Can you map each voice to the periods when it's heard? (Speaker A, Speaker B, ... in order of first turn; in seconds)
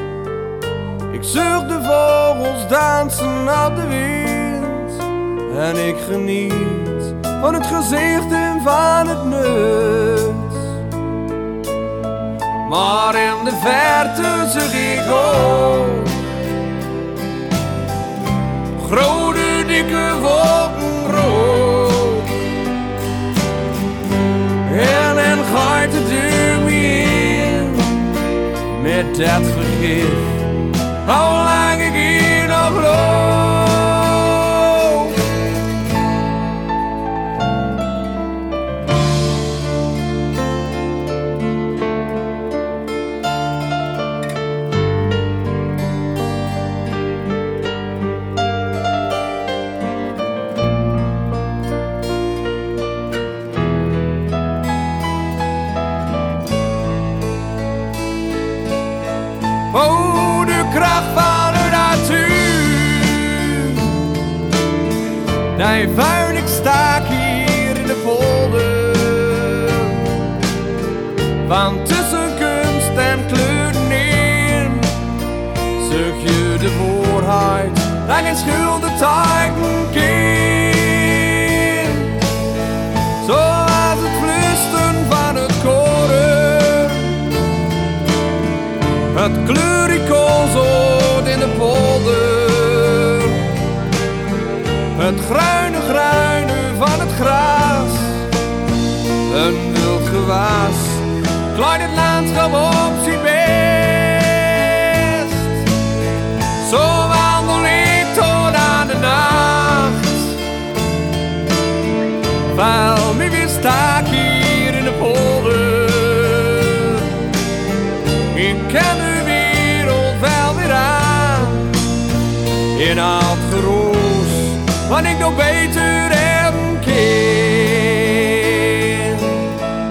Speaker A: 1.1-10.8, 12.7-16.1, 18.8-22.4, 24.6-28.1, 28.7-35.2, 59.7-64.0, 65.5-70.0, 71.4-74.9, 75.8-82.2, 83.2-87.2, 89.1-93.4, 95.0-98.3, 99.3-105.6, 106.6-110.3, 112.5-117.1, 118.3-121.8, 122.7-129.4